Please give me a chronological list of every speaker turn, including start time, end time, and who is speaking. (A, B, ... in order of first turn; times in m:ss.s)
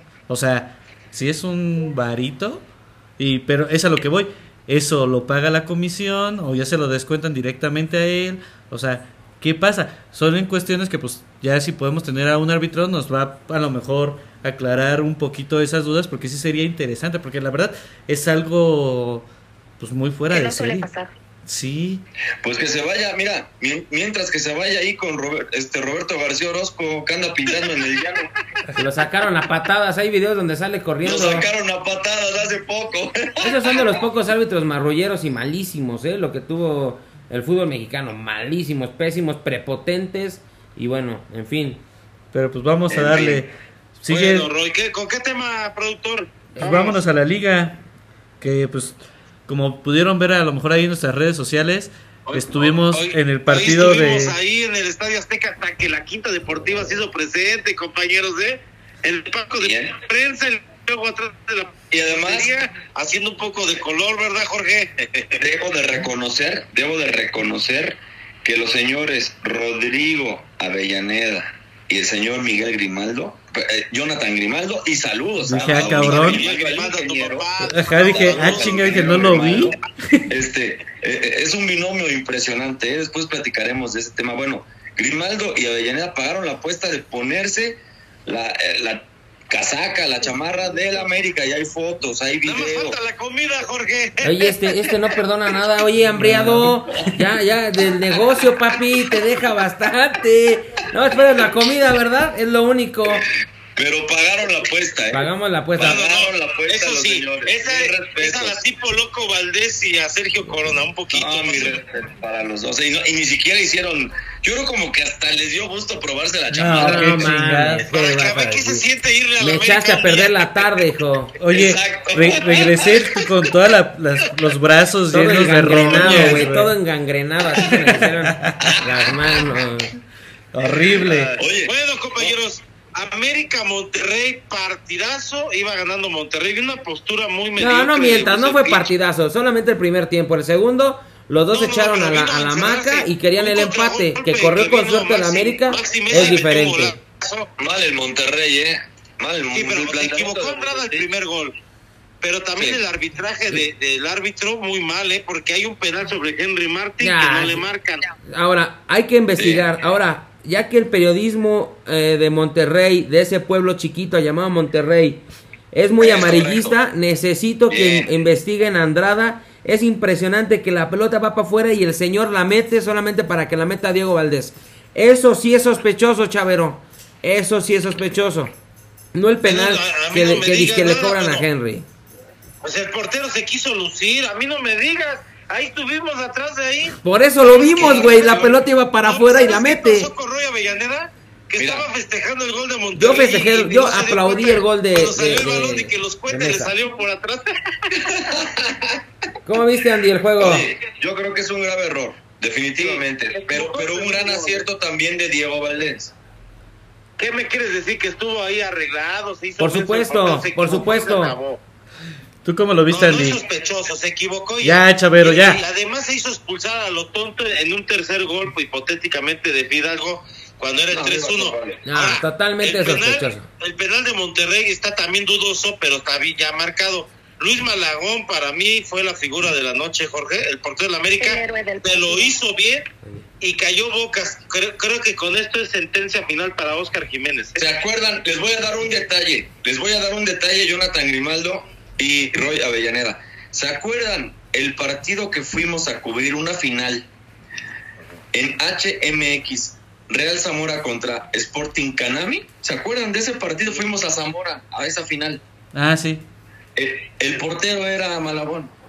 0:00.3-0:02.6 A
0:03.2-0:19.3 A
0:19.8-0:20.9 A
0:20.3-0:21.1 B
0:21.4-0:22.0 A
0:22.4-0:28.3 C
0:28.7-0:31.5 D
0:31.0-0:33.9 C
0:33.4-0:41.8 D
0:42.3-0:44.5 A
0:42.9-0:43.4 C
0:44.1-0:47.0 E
0:46.6-0:47.8 A
0:48.4-0:54.4 A
0:52.3-1:05.4 E
0:59.6-1:00.0 C
1:01.9-1:02.5 C
1:05.4-1:33.0 C
1:15.4-1:16.4 A
1:15.8-1:19.6 E
1:17.7-1:20.3 A
1:32.4-1:34.5 E
1:34.2-1:43.2 D
1:36.2-1:36.7 A
1:43.8-1:48.6 C
1:45.1-1:46.0 D
1:45.8-1:51.8 E
1:51.1-1:57.4 C
1:56.5-1:57.8 A
1:56.7-1:58.9 D
1:57.8-2:00.6 E
1:59.4-2:01.3 D
2:01.4-2:06.7 A
2:01.5-2:03.3 C
2:05.1-2:09.9 D
2:05.9-2:06.3 C
2:07.6-2:08.8 A
2:08.6-2:09.1 C
2:10.5-2:11.3 A
2:10.6-2:12.3 C
2:10.8-2:18.9 E
2:17.6-2:27.0 D
2:21.5-2:27.5 E
2:26.1-2:26.4 C
2:27.6-2:31.1 C
2:29.5-2:31.5 E
2:32.2-2:38.1 E
2:32.6-2:32.8 C
2:37.0-2:37.6 D
2:38.2-2:58.5 D
2:39.4-2:39.7 C
2:46.0-2:46.7 C
2:47.7-2:48.1 C
2:59.1-3:01.9 D
2:59.4-3:01.4 E
3:02.6-3:17.7 E
3:07.0-3:10.1 D
3:07.7-3:08.6 C
3:11.6-3:11.9 C
3:13.0-3:16.7 D
3:17.9-3:19.0 C
3:19.4-3:20.7 D
3:20.4-3:26.1 C
3:22.8-3:24.6 E
3:27.2-3:31.6 E
3:29.6-3:31.4 D
3:32.4-3:33.4 A
3:32.9-3:52.9 E
3:34.6-3:35.6 A
3:40.9-3:41.8 C
3:41.9-3:43.5 D
3:51.2-3:52.4 B
3:53.4-3:57.6 E
3:57.6-4:07.1 C
4:08.3-4:15.4 C
4:15.7-4:16.2 A
4:16.8-4:18.7 C